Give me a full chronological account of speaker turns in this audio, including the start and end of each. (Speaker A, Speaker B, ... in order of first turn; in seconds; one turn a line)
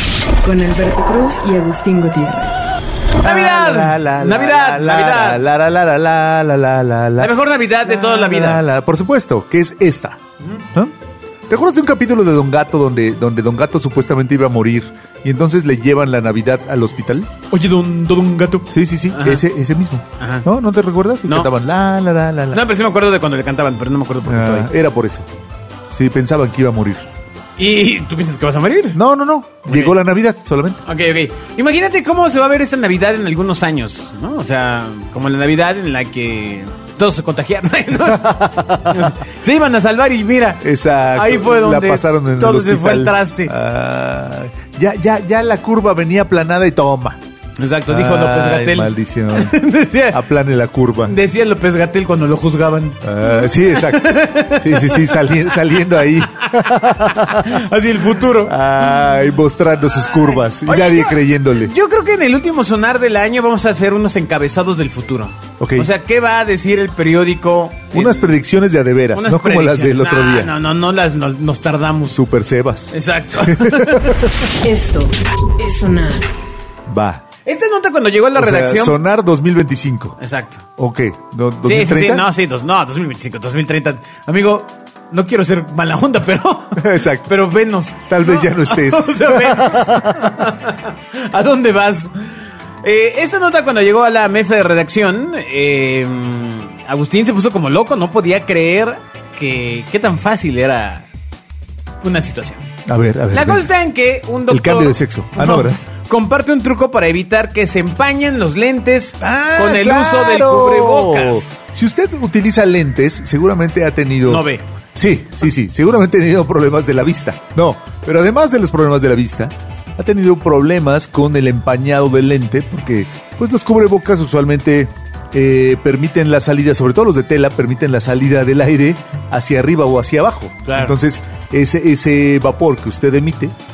Speaker A: 0.4-2.8
Speaker B: 3.2-7.3
Speaker C: 3.2-5.4
Speaker C: 7.2-8.6
Speaker B: 7.8-10.2
Speaker B: 11.5-17.3
Speaker C: 17.5-19.4
Speaker B: 18.7-22.6
Speaker C: 20.2-20.5
Speaker C: 22.5-24.7
Speaker B: 24.2-25.3
Speaker B: 25.9-27.1
Speaker C: 27.6-29.0
Speaker B: 28.9-30.8
Speaker C: 29.7-30.0
Speaker C: 30.9-43.5
Speaker B: 38.1-39.1
Speaker B: 40.6-47.2
Speaker C: 47.6-50.2
Speaker B: 47.9-49.6
Speaker B: 50.1-51.2
Speaker C: 51.0-55.6
Speaker B: 53.0-57.6
Speaker C: 56.4-58.5
Speaker B: 58.4-61.7
Speaker C: 60.0-68.3
Speaker B: 65.6-65.9
Speaker B: 67.9-70.5
Speaker C: 69.1-72.2
Speaker B: 72.1-74.3
Speaker C: 72.9-74.2
Speaker A: 74.6-76.3
Speaker B: 76.9-77.2
Speaker C: 77.5-79.0
Speaker B: 78.3-80.2
Speaker C: 80.2-80.7
Speaker B: 80.8-82.2
Speaker C: 81.7-92.1
Speaker B: 86.8-87.3
Speaker B: 88.1-90.4
Speaker C: 92.8-101.1
Speaker C: 102.0-102.7
Speaker B: 102.9-103.7
Speaker C: 103.3-111.5
Speaker B: 104.5-105.8
Speaker B: 109.2-133.6
Speaker C: 114.3-114.6
Speaker C: 130.7-131.0